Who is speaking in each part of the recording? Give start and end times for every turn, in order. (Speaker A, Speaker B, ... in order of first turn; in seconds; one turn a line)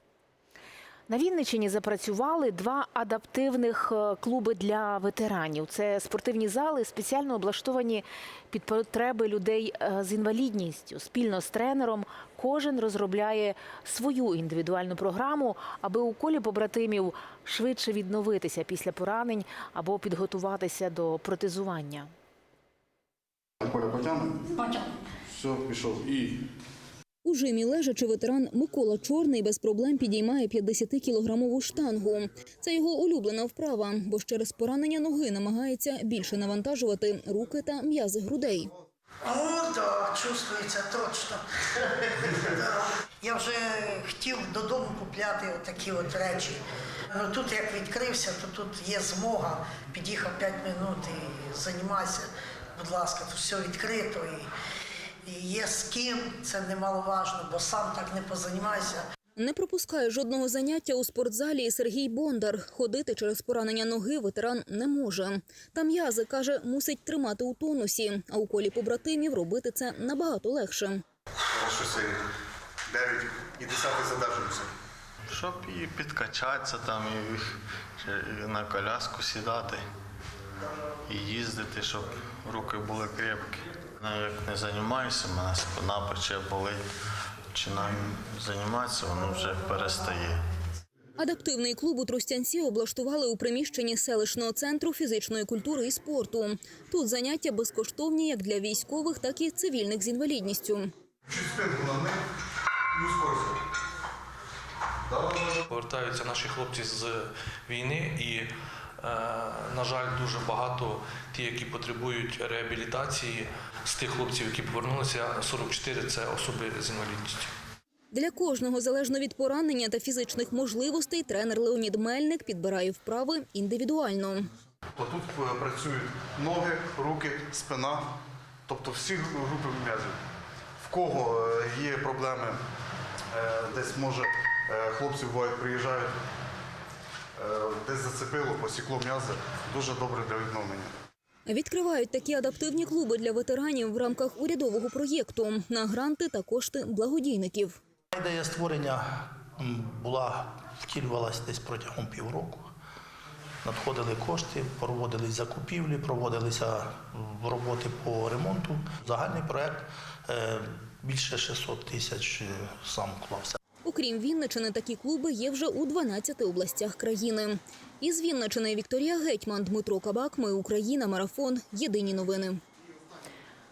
Speaker A: 1.1-22.1
Speaker B: 23.6-24.7
Speaker B: 25.3-26.4
Speaker C: 27.2-38.7
Speaker D: 39.2-46.6
Speaker D: 47.1-54.5
Speaker D: 55.2-59.0
Speaker C: 59.4-71.0
Speaker B: 71.5-72.2
Speaker B: 72.9-74.7
Speaker E: 75.3-79.9
Speaker E: 81.1-86.9
Speaker E: 87.5-90.4
Speaker C: 91.2-100.9
Speaker B: 101.2-102.2
Speaker B: 102.9-103.6
Speaker B: 105.0-105.6
Speaker F: 105.7-108.5
Speaker F: 109.0-117.5
Speaker C: 118.1-124.5
Speaker B: 125.0-128.1
Speaker B: 128.7-130.2
Speaker B: 130.8-132.6
Speaker B: 133.3-136.1
Speaker B: 137.4-140.9
Speaker C: 141.4-147.8
Speaker G: 148.1-152.7
Speaker G: 153.6-163.6
Speaker C: 163.8-172.6